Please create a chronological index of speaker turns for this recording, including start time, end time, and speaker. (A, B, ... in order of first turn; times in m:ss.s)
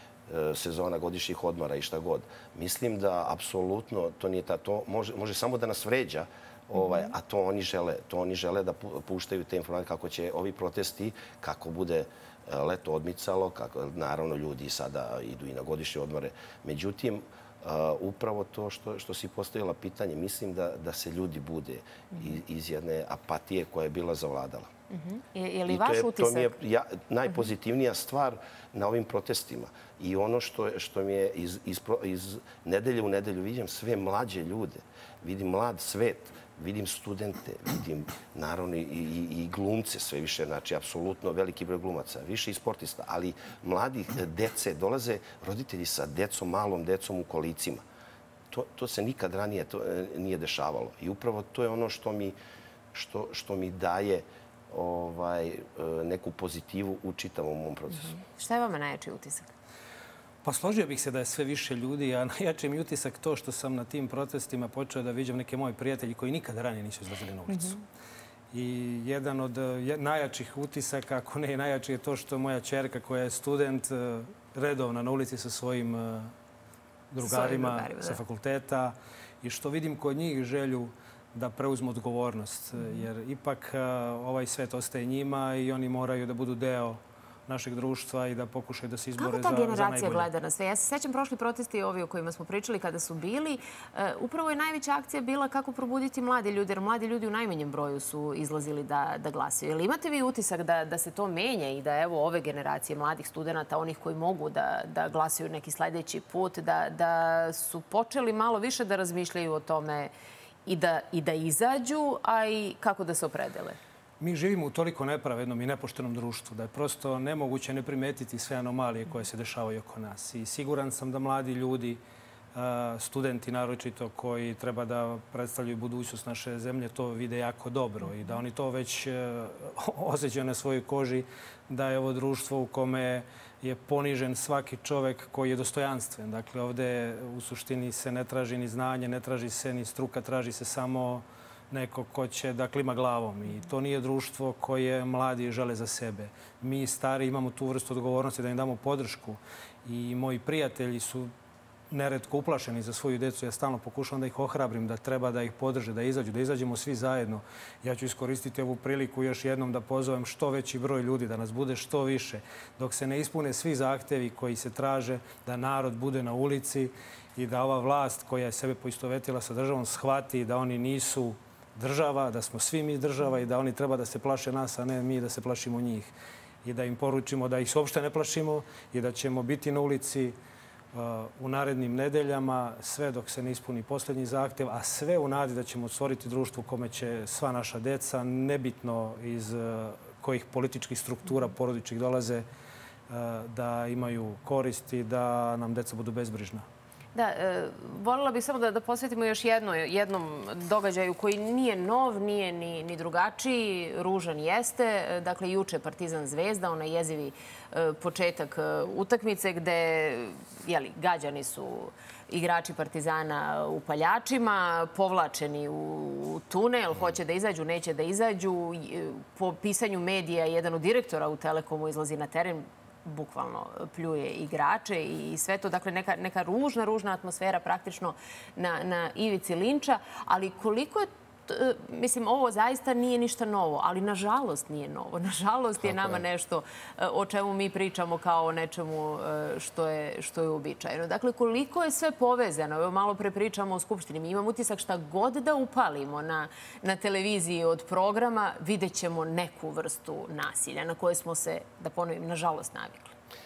0:00.3-0:24.7 A
0:24.9-0:26.6 B
0:25.7-0:47.8 A
0:48.5-0:52.4 A
0:52.9-0:58.2 A
0:57.9-0:59.5 B
1:00.4-1:07.8 C
1:07.5-1:07.8 B
1:08.5-1:16.3 C
1:17.1-1:30.3 C
1:17.2-1:18.2 B
1:22.8-1:23.0 B
1:29.2-1:50.1 B
1:50.6-1:53.8 B
1:54.2-2:02.0 C
2:02.6-2:31.3 C
2:31.9-2:56.1 C
2:56.6-3:00.4 C
3:00.9-3:12.4 C
3:13.1-3:16.6 C
3:17.1-4:13.1 B
3:55.8-3:56.2 A